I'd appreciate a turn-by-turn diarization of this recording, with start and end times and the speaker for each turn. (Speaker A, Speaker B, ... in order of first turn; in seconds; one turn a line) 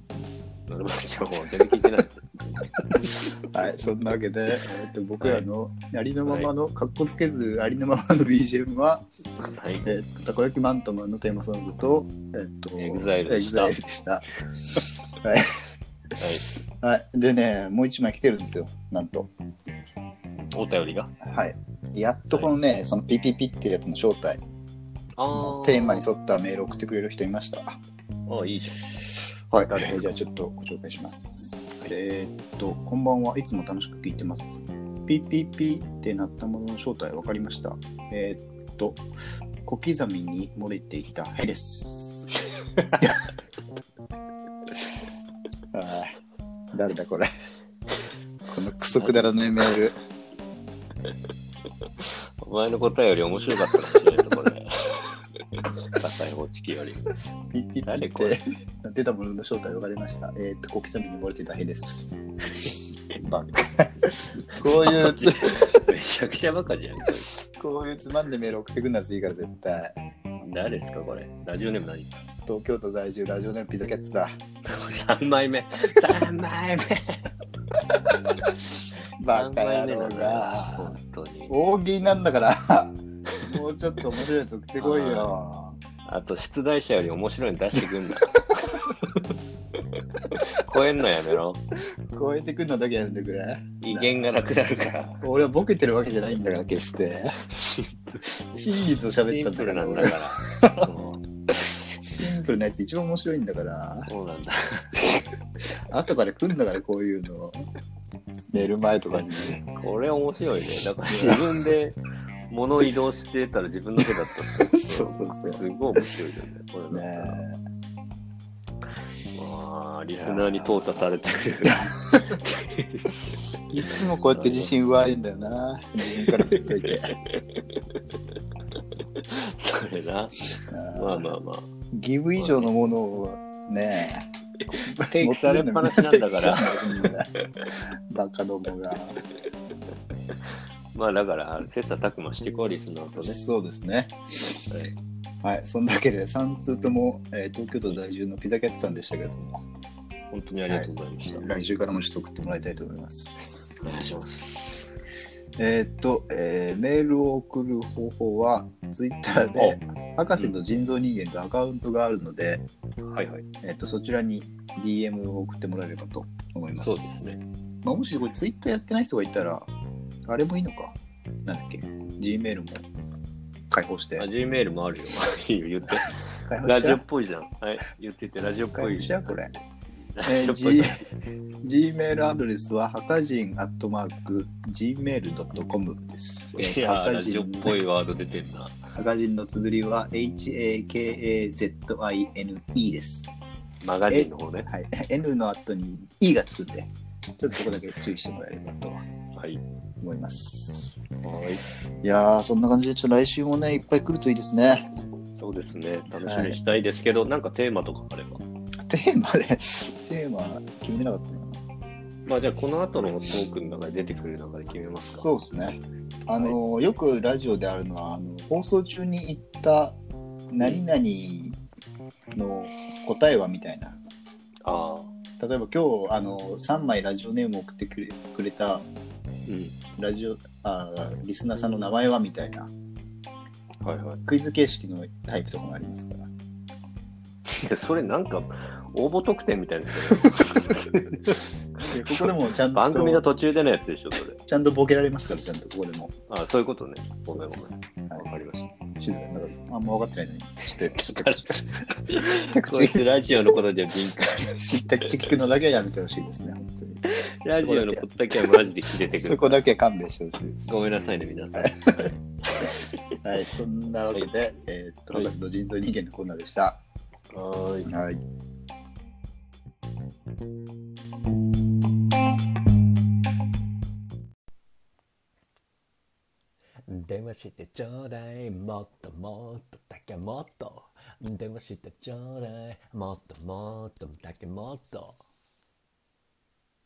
Speaker A: 0.7-3.8
Speaker B: 1.6-1.9
Speaker B: 2.8-9.1
Speaker A: 5.2-5.5
Speaker A: 6.2-6.5
Speaker A: 9.4-9.9
Speaker B: 9.8-14.2
Speaker A: 12.8-13.8
Speaker B: 15.2-15.6
Speaker A: 16.2-16.5
Speaker B: 16.8-19.3
Speaker A: 20.5-21.1
Speaker B: 21.2-24.4
Speaker A: 25.2-26.1
Speaker B: 25.3-27.8
Speaker A: 28.3-29.0
Speaker B: 29.5-39.0
Speaker A: 29.7-30.1
Speaker A: 31.6-31.9
Speaker B: 39.6-42.3
Speaker A: 42.8-43.1
Speaker B: 45.7-46.1
Speaker B: 46.7-47.3
Speaker B: 48.5-49.9
Speaker A: 49.0-49.7
Speaker A: 52.0-57.1
Speaker B: 57.5-62.2
Speaker A: 57.9-58.4
Speaker B: 63.2-65.8
Speaker A: 64.7-67.3
Speaker B: 67.4-70.0
Speaker A: 70.4-72.1
Speaker B: 72.5-74.4
Speaker A: 74.7-77.2
Speaker B: 79.2-81.0
Speaker A: 79.3-81.5
Speaker B: 81.5-85.8
Speaker A: 84.8-85.3
Speaker A: 86.0-89.3
Speaker A: 89.9-91.6
Speaker B: 92.1-94.3
Speaker A: 93.8-95.2
Speaker B: 95.2-97.4
Speaker A: 97.5-98.2
Speaker B: 98.5-100.9
Speaker A: 99.2-101.2
Speaker B: 102.0-104.1
Speaker A: 104.1-104.9
Speaker B: 105.9-107.7
Speaker B: 108.5-109.6
Speaker A: 109.4-112.0
Speaker B: 111.1-111.5
Speaker A: 112.5-117.4
Speaker B: 114.7-116.0
Speaker B: 116.9-117.6
Speaker A: 119.3-123.1
Speaker B: 120.1-121.0
Speaker B: 121.6-122.4
Speaker B: 123.7-127.1
Speaker A: 124.0-124.7
Speaker A: 126.2-128.0
Speaker A: 128.9-131.7
Speaker B: 130.7-131.3
Speaker B: 131.9-139.2
Speaker A: 132.4-132.7
Speaker A: 135.0-137.1
Speaker A: 140.9-143.4
Speaker B: 143.2-144.2
Speaker B: 145.4-149.6
Speaker A: 150.3-151.6
Speaker B: 150.7-153.8
Speaker A: 153.8-154.9
Speaker B: 155.6-162.6
Speaker A: 159.5-159.8
Speaker A: 163.1-163.4
Speaker B: 163.6-167.2
Speaker A: 166.8-167.4
Speaker B: 167.8-169.7
Speaker B: 170.3-172.8
Speaker B: 173.7-174.3
Speaker A: 174.2-179.5
Speaker B: 176.5-177.0
Speaker B: 178.7-179.5
Speaker A: 180.1-181.1
Speaker B: 180.2-181.0
Speaker B: 181.6-187.8
Speaker A: 186.5-188.8
Speaker B: 188.9-193.3
Speaker A: 193.8-194.7
Speaker B: 194.1-199.0
Speaker A: 199.3-199.6
Speaker B: 200.0-201.0
Speaker A: 201.2-201.6
Speaker B: 202.0-204.9
Speaker A: 205.3-208.4
Speaker B: 206.2-206.6
Speaker B: 208.8-211.6
Speaker A: 212.3-215.3
Speaker B: 215.0-220.0
Speaker B: 220.5-221.6
Speaker B: 222.3-224.0
Speaker A: 224.6-225.1
Speaker B: 225.4-228.8
Speaker A: 229.4-229.8
Speaker B: 230.0-232.7
Speaker A: 233.8-234.2
Speaker B: 234.2-236.3
Speaker A: 237.5-244.4
Speaker B: 241.9-243.2
Speaker B: 244.4-246.1
Speaker A: 246.3-248.7
Speaker B: 247.3-248.2
Speaker B: 249.0-253.2
Speaker A: 250.8-255.3
Speaker B: 254.6-257.0
Speaker A: 257.1-259.6
Speaker B: 257.6-258.1
Speaker B: 259.1-260.9
Speaker A: 260.6-262.9
Speaker B: 261.6-262.1
Speaker B: 263.2-266.8
Speaker A: 267.3-267.9
Speaker B: 267.9-268.2
Speaker C: 276.9-285.2